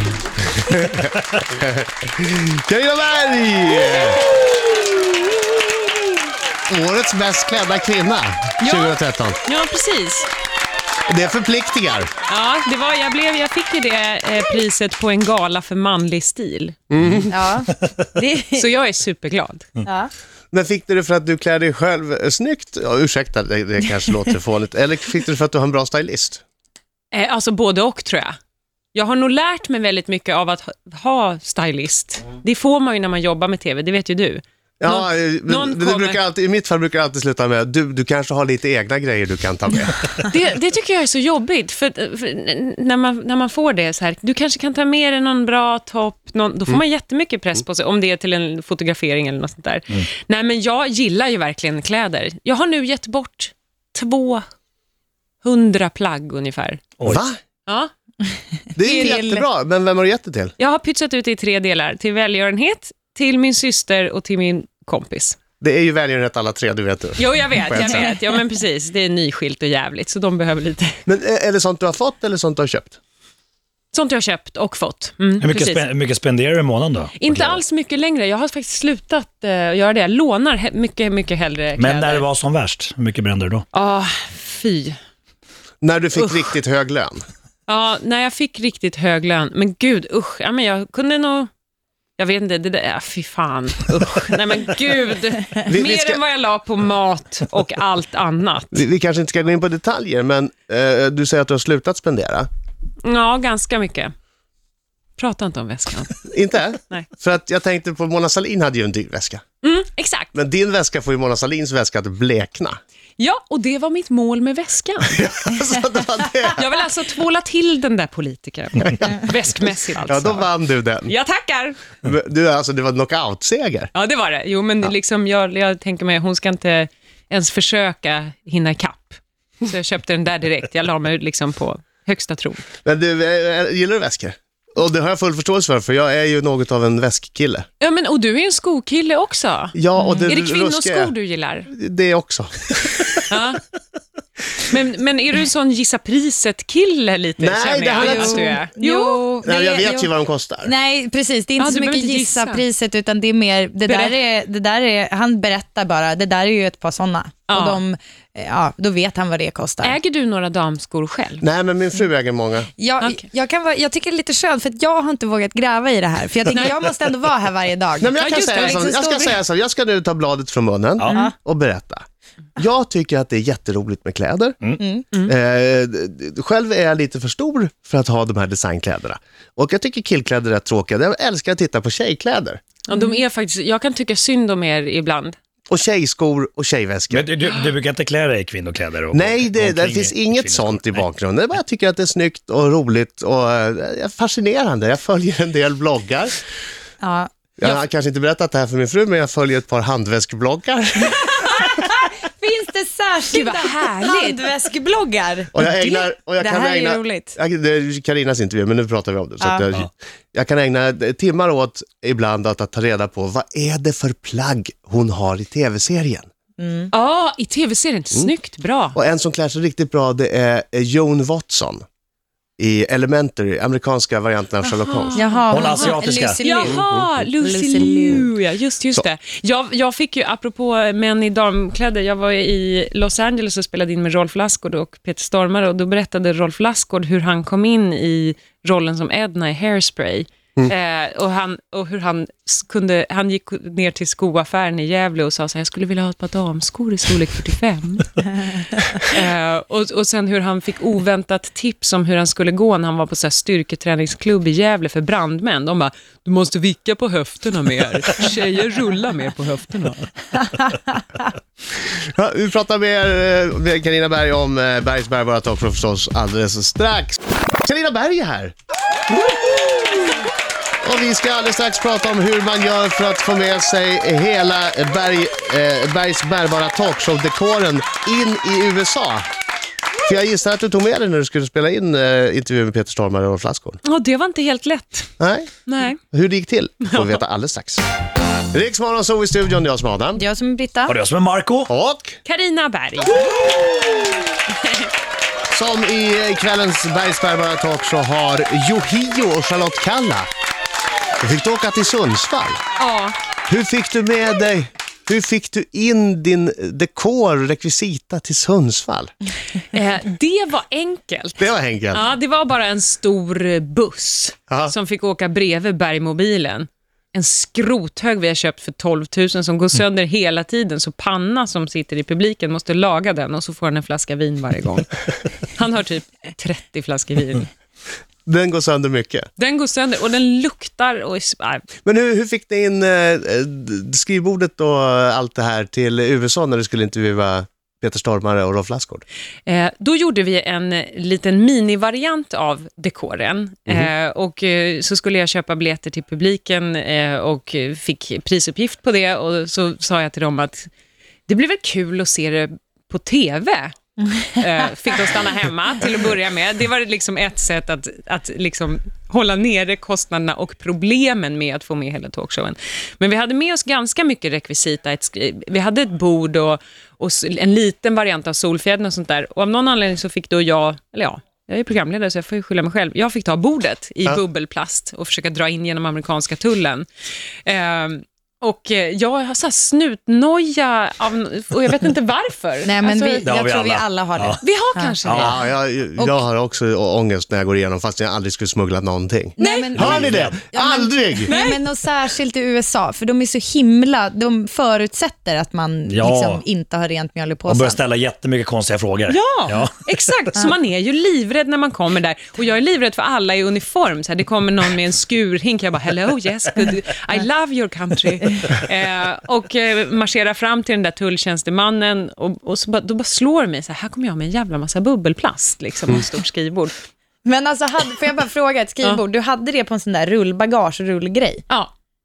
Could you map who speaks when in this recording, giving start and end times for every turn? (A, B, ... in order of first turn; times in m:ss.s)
0:00.5-0:04.3 A
0:06.7-0:09.4 A
0:08.6-0:10.3 B
0:11.1-0:12.1 A
0:12.3-0:16.7 B
0:16.9-0:17.3 A
0:17.3-0:18.7 C
0:18.6-0:19.7 B
0:19.8-0:20.1 C
0:20.5-0:26.4 A
0:27.1-0:28.4 B
0:28.9-0:36.2 B
0:34.8-0:40.0 A
0:40.2-0:54.5 B
0:55.4-0:56.8 B
0:57.0-0:57.2 D
0:57.0-0:57.4 A
0:58.7-1:00.5 A
0:58.8-0:59.4 C
0:58.8-0:59.2 B
1:00.6-1:05.4 B
1:05.6-1:08.0 A
1:07.2-1:11.0 B
1:11.1-1:13.0 A
1:13.9-1:15.8 B
1:15.4-1:17.6 D
1:17.2-1:22.2 B
1:21.8-1:23.6 D
1:23.7-1:25.0 B
1:25.8-1:27.2 A
1:27.7-1:31.5 B
1:32.2-1:38.8 B
1:35.7-1:36.2 A
1:38.7-1:42.5 A
1:43.0-1:44.1 B
1:45.2-1:46.2 B
1:46.3-1:49.4 A
1:49.6-1:50.3 B
1:50.3-1:52.8 A
1:53.2-1:55.2 B
1:55.1-1:56.6 A
1:56.6-2:00.5 B
1:58.8-2:01.1 A
2:01.0-2:01.8 B
2:02.0-2:03.9 A
2:03.9-2:12.6 B
2:12.8-2:17.7 A
2:17.8-2:21.7 B
2:19.8-2:21.1 A
2:20.0-2:20.3 C
2:21.7-2:23.2 A
2:23.3-2:23.6 B
2:24.6-2:29.2 B
2:27.4-2:28.7 A
2:28.0-2:30.1 C
2:29.4-2:30.7 A
2:30.6-2:39.9 C
2:31.6-2:32.6 B
2:33.8-2:34.2 B
2:37.5-2:37.8 B
2:39.8-2:41.4 B
2:41.4-2:42.7 A
2:42.8-2:49.4 C
2:46.5-2:46.8 B
2:48.0-2:52.0 A
2:48.0-2:48.9 B
2:51.0-2:51.3 D
2:52.6-2:54.6 A
2:54.8-2:55.0 C
2:55.2-3:02.6 A
3:02.8-3:05.4 B
3:05.7-3:07.3 A
3:07.1-3:11.0 D
3:09.1-3:16.3 A
3:17.0-3:17.3 C
3:17.6-3:21.6 A
3:21.4-3:27.3 C
3:23.3-3:24.5 B
3:25.5-3:36.3 A
3:36.6-3:36.9 C
3:36.9-3:39.0 B
3:39.0-3:41.8 A
3:42.6-3:45.2 A
3:44.6-4:08.2 B
3:45.2-3:48.3 C
3:45.5-3:46.4 D
3:46.6-3:47.1 A
4:08.9-4:20.0 B
4:22.1-4:28.5 A
4:30.8-4:39.3 A
4:40.0-4:43.8 A
4:43.8-4:45.1 B
4:45.2-4:45.5 A
4:45.6-4:46.0 B
4:46.0-4:47.8 A
4:46.8-4:47.2 B
4:48.5-4:50.2 A
4:50.2-4:51.0 C
4:50.9-4:51.7 D
4:51.7-4:52.2 A
4:52.2-4:53.4 B
4:53.2-4:54.1 A
4:55.5-5:00.3 A
5:01.2-5:02.6 A
5:02.8-5:03.1 B
5:03.5-5:09.1 A
5:09.7-5:24.9 B
5:11.4-5:12.1 A
5:25.5-5:27.5 B
5:28.2-5:29.3 A
5:29.4-5:31.6 B
5:31.8-5:39.0 A
5:39.5-5:50.7 B
5:51.3-5:53.7 B
5:54.1-5:54.4 C
5:54.4-6:16.9 B
6:17.4-6:23.2 B
6:22.6-6:24.9 C
6:23.2-6:24.4 D
6:24.4-6:25.4 B
6:25.0-6:25.4 D
6:25.2-6:31.3 A
6:26.0-6:26.2 C
6:29.4-6:37.8 C
6:29.4-6:29.7 B
6:29.7-6:30.4 D
6:31.3-6:31.6 B
6:35.9-6:36.4 D
6:37.5-6:39.7 D
6:39.1-6:56.8 B
6:57.2-7:01.4 C